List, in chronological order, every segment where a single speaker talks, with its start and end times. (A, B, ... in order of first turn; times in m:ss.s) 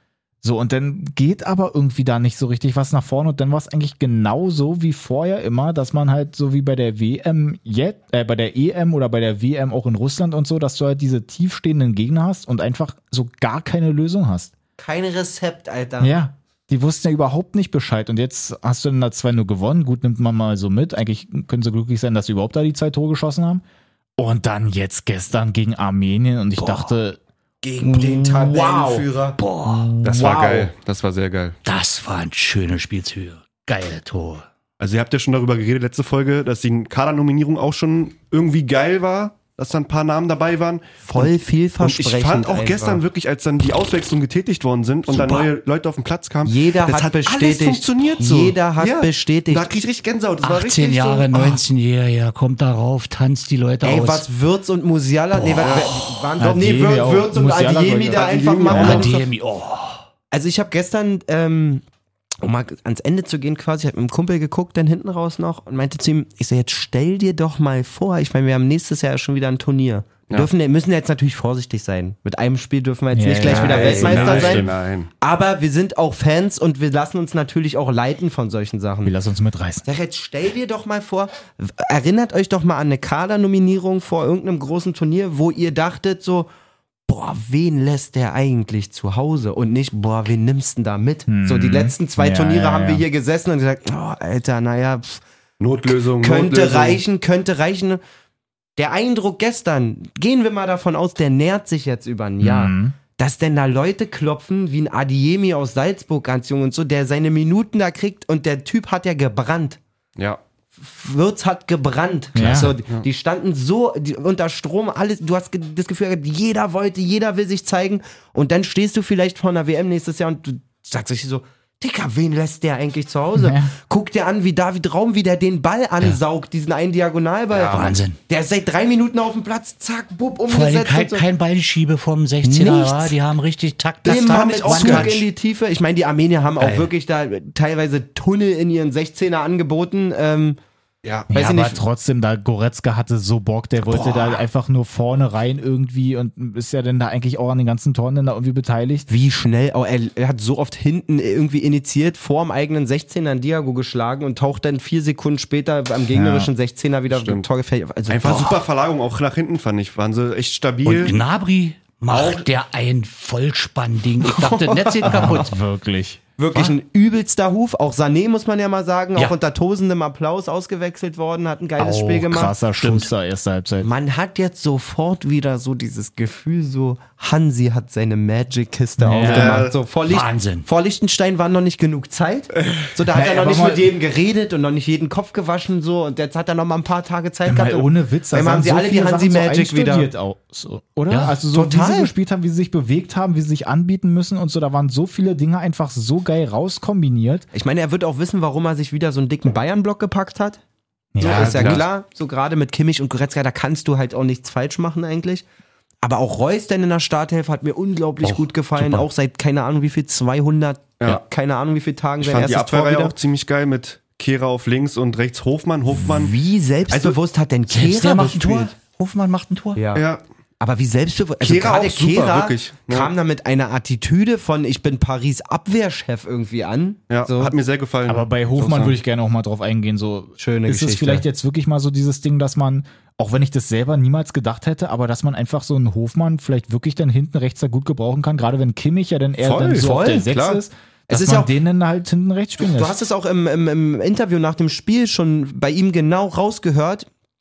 0:00.4-0:14.5 A
0:14.8-0:16.2 B
0:16.0-0:23.6 A
0:24.2-0:27.2 A
0:26.6-0:26.9 C
0:27.6-0:29.4 B
0:27.9-0:29.0 A
0:29.4-0:30.0 C
0:30.0-0:30.7 A
0:30.0-0:31.6 D
0:31.6-0:34.4 C
0:34.8-0:51.3 D
0:41.0-0:43.0 B
0:45.1-0:45.5 B
0:46.4-0:49.8 B
0:50.4-0:54.2 C
0:53.8-0:59.2 B
0:55.6-0:56.2 D
0:56.4-0:59.1 A
0:58.1-0:59.1 D
0:58.7-1:00.0 C
1:00.3-1:01.8 B
1:02.4-1:19.1 B
1:13.1-1:14.7 A
1:13.4-1:15.1 D
1:19.0-1:19.8 A
1:19.8-1:26.5 B
1:27.1-1:35.2 B
1:31.3-1:33.0 A
1:35.6-1:37.0 D
1:36.2-1:38.0 B
1:38.8-1:49.8 B
1:42.4-1:43.0 A
1:50.8-2:11.2 B
1:52.3-1:52.7 A
2:03.3-2:03.7 A
2:07.5-2:07.9 D
2:07.7-2:08.2 C
2:10.5-2:15.2 C
2:12.4-2:13.2 B
2:14.0-2:20.6 B
2:14.0-2:15.2 D
2:16.6-2:16.9 C
2:21.0-2:21.3 D
2:21.3-2:21.8 B
2:21.3-2:29.1 A
2:29.1-2:38.6 B
2:36.1-2:36.5 A
2:37.1-2:37.4 D
2:38.1-2:41.2 D
2:38.2-2:38.5 C
2:40.8-2:45.6 C
2:44.2-2:45.4 B
2:45.0-2:46.2 A
2:46.4-2:52.5 B
2:51.8-2:52.2 C
2:52.2-2:53.9 A
2:52.8-2:53.1 C
2:53.8-3:10.1 B
2:59.0-2:59.7 A
2:59.2-2:59.7 D
3:00.0-3:00.7 C
3:03.1-3:03.9 A
3:07.4-3:17.4 A
3:11.1-3:11.4 C
3:11.5-3:12.1 B
3:17.5-3:20.6 B
3:21.1-3:21.8 A
3:21.2-3:25.4 B
3:21.3-3:21.8 D
3:26.0-3:33.1 B
3:28.2-3:29.0 C
3:32.2-3:36.3 D
3:36.0-3:38.7 B
3:36.9-3:37.2 D
3:37.7-3:39.8 C
3:39.8-3:40.0 B
3:39.9-3:40.2 D
3:40.6-3:47.5 B
3:41.4-3:43.1 D
3:47.1-3:48.3 D
3:48.1-4:03.0 A
3:48.6-3:49.0 B
3:50.4-3:51.2 B
3:59.4-4:00.6 D
3:59.6-4:00.6 B
4:01.1-4:01.5 B
4:02.6-4:07.1 B